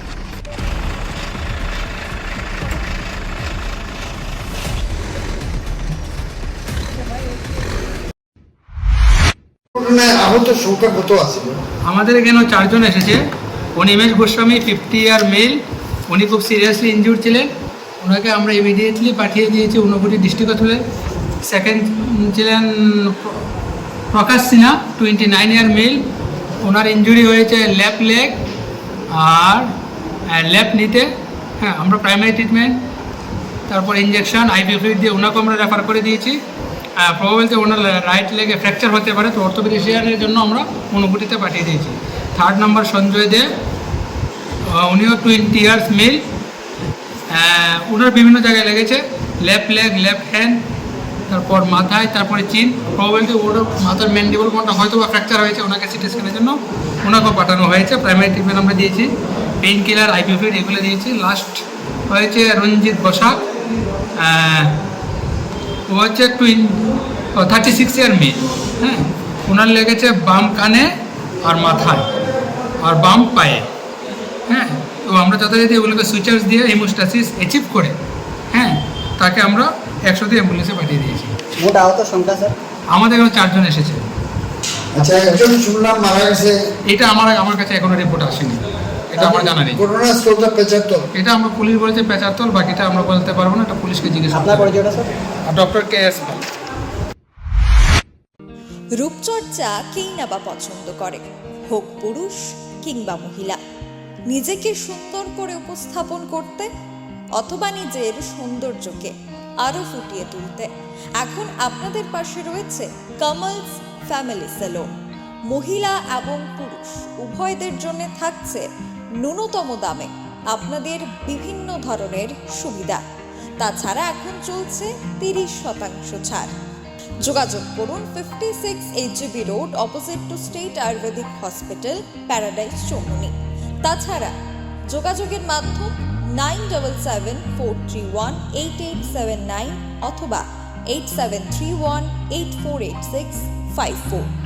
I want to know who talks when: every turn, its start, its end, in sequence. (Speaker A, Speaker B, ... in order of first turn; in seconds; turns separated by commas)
Speaker A: 9.8-11.6, Speaker B: 11.9-13.2, Speaker B: 13.8-17.5, Speaker B: 18.0-20.8, Speaker B: 21.4-23.4, Speaker B: 24.1-26.0, Speaker B: 26.6-28.4, Speaker B: 29.1-29.7, Speaker B: 30.3-32.8, Speaker B: 33.7-36.4, Speaker B: 37.0-43.5, Speaker B: 44.7-46.2, Speaker B: 47.3-50.6, Speaker B: 51.3-63.4, Speaker B: 64.2-64.8, Speaker B: 65.9-70.9, Speaker B: 71.5-72.1, Speaker B: 72.8-73.7, Speaker B: 74.5-78.0, Speaker B: 78.5-81.4, Speaker C: 81.6-82.6, Speaker B: 82.9-84.1, Speaker A: 84.9-86.6, Speaker B: 86.9-89.8, Speaker A: 89.2-91.0, Speaker C: 89.2-89.5, Speaker B: 91.1-94.8, Speaker C: 94.3-95.1, Speaker B: 95.5-96.4, Speaker D: 99.0-103.6, Speaker D: 104.3-106.7, Speaker D: 107.4-114.9, Speaker D: 115.5-118.7, Speaker D: 119.2-123.0, Speaker D: 123.6-126.5, Speaker D: 127.2-134.3, Speaker D: 134.9-144.3